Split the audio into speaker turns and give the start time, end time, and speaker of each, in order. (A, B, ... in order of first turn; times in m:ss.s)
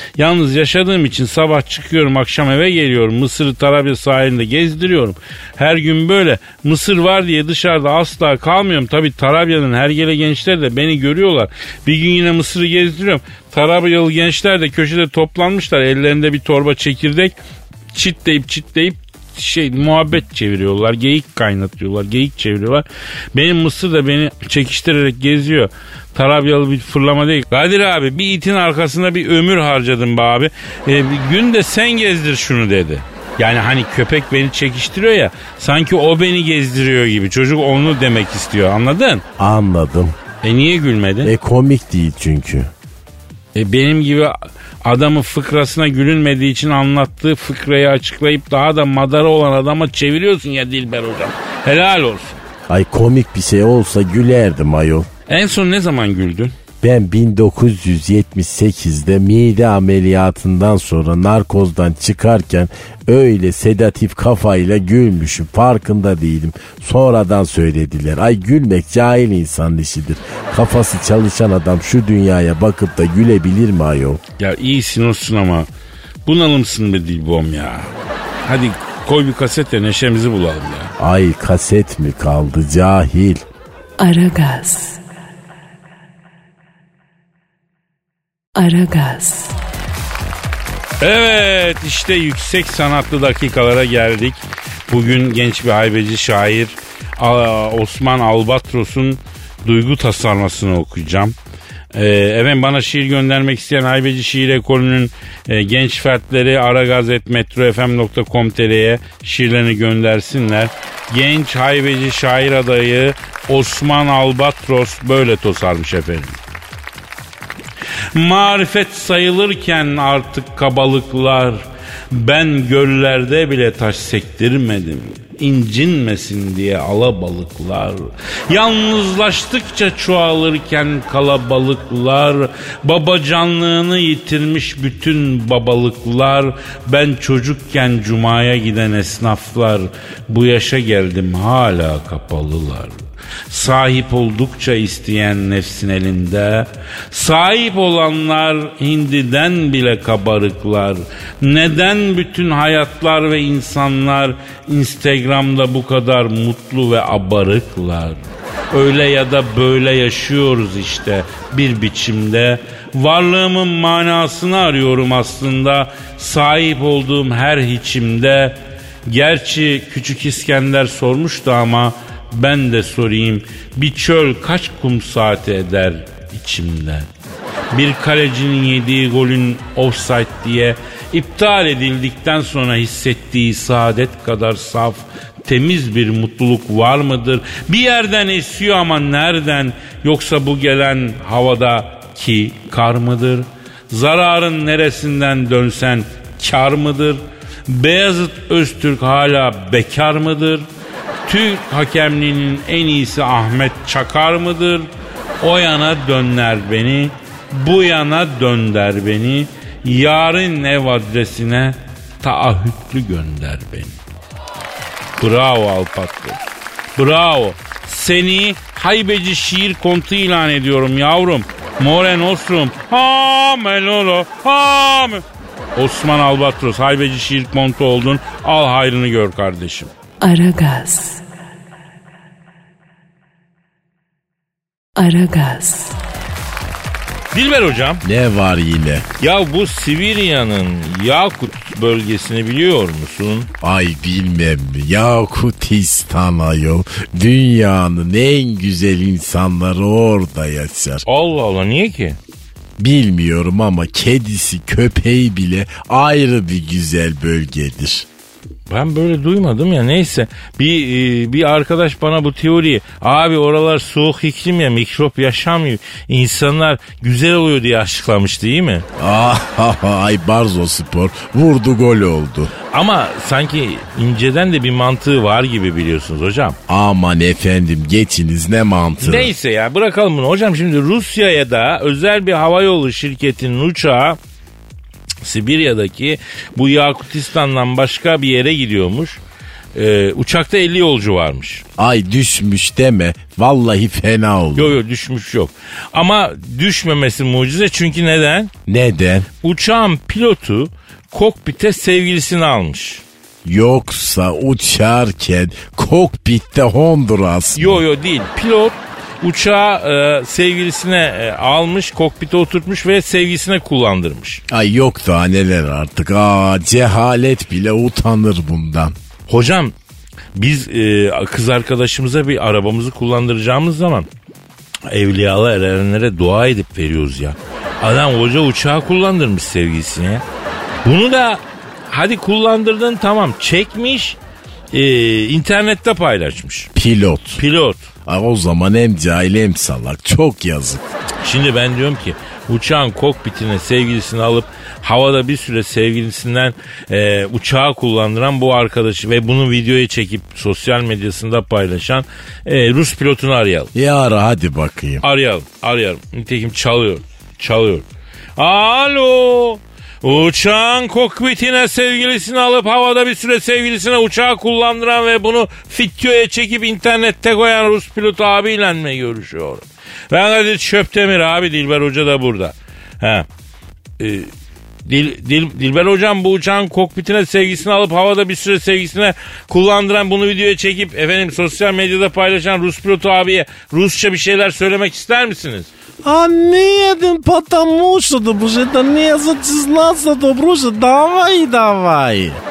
0:00.2-0:17.3 A
0:17.9-0:39.2 A
0:39.4-0:40.2 B
0:40.4-0:41.3 A
0:41.2-0:42.7 B
0:43.6-0:52.4 A
0:52.7-0:55.1 B
0:55.3-0:56.5 A
0:56.8-1:14.2 B
1:14.4-1:15.7 A
1:16.3-1:17.9 A
1:18.4-1:20.9 A
1:21.0-1:23.4 B
1:24.0-1:25.0 C
1:28.6-1:29.6 C
1:31.0-1:41.4 A
1:41.9-1:56.4 A
1:58.2-2:23.0 A
2:23.5-2:57.1 A
2:57.7-3:20.7 A
3:21.3-3:24.9 A
3:25.4-3:34.0 A
3:35.2-3:36.4 A
3:37.0-3:45.2 A
3:45.8-3:49.9 A
3:50.2-3:51.2 C
3:55.0-3:56.0 C
3:57.3-3:58.0 A
3:58.0-3:59.1 B
3:59.2-4:03.5 A
4:03.6-4:11.0 B
4:11.1-4:12.2 A
4:12.8-4:18.1 B
4:18.7-4:28.8 A
4:29.0-4:32.5 B
4:32.7-4:36.6 A
4:36.7-4:39.3 B
4:39.0-4:44.2 A
4:45.2-4:49.2 A
4:49.8-4:51.6 A
4:51.8-4:54.7 B
4:54.6-4:58.5 A
4:58.7-4:59.3 B
4:59.4-5:03.0 A
5:03.4-5:07.8 B
5:07.6-5:14.4 A
5:14.5-5:19.0 B
5:19.3-5:19.7 A
5:20.4-5:24.1 A
5:24.9-5:30.2 A
5:30.8-5:34.2 A
5:34.7-5:36.7 A
5:36.8-5:37.4 B
5:37.4-5:37.9 A
5:38.1-5:40.8 B
5:41.2-5:53.7 A
5:53.7-5:55.0 B
5:55.0-5:57.8 A
5:58.4-6:13.3 A
6:14.0-6:14.3 A
6:14.9-6:25.7 A
6:26.0-6:32.4 B